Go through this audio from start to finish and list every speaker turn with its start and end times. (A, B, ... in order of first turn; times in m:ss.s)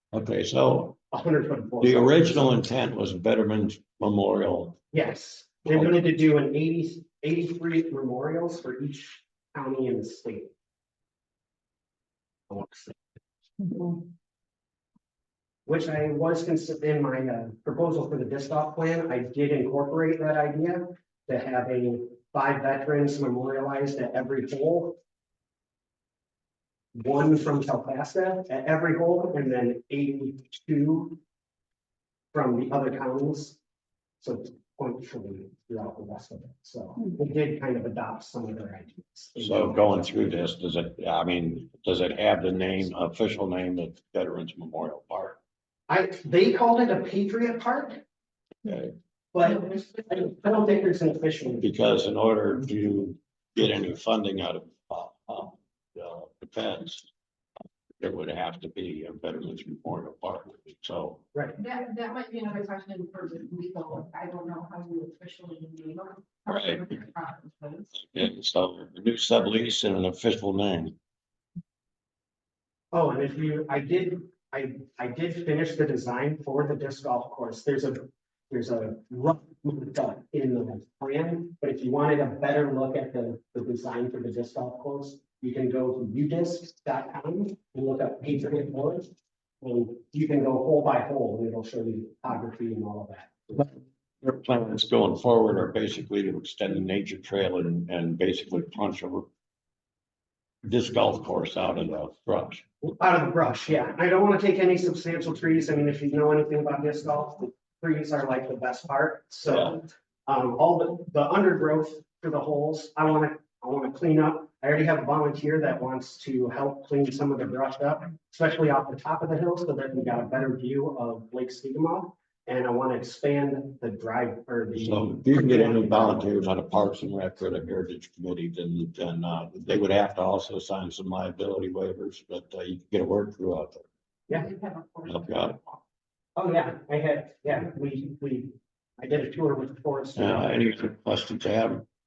0:00.1-0:01.0 A
0:01.1-0:02.5 B
0:01.8-0:04.8 A
0:04.9-0:10.5 B
0:05.7-0:06.1 A
0:12.5-0:13.0 B
0:15.7-0:25.0 B
0:27.0-0:31.2 B
0:32.3-0:33.6 B
0:34.2-0:40.4 B
0:39.4-0:45.4 A
0:45.9-0:48.0 B
0:48.6-0:48.9 A
0:49.3-0:51.7 B
0:51.6-0:57.1 A
0:58.0-1:01.2 A
1:01.6-1:07.9 C
1:06.5-1:06.8 A
1:07.9-1:11.0 A
1:12.9-1:29.1 B
1:29.6-1:33.7 B
1:34.2-1:39.3 A
1:40.6-1:42.6 A
1:42.8-2:06.3 B
1:49.5-1:49.7 A
2:04.8-2:13.9 A
2:14.3-2:15.8 C
2:15.1-2:15.6 A
2:16.4-2:20.6 B
2:20.2-2:21.8 A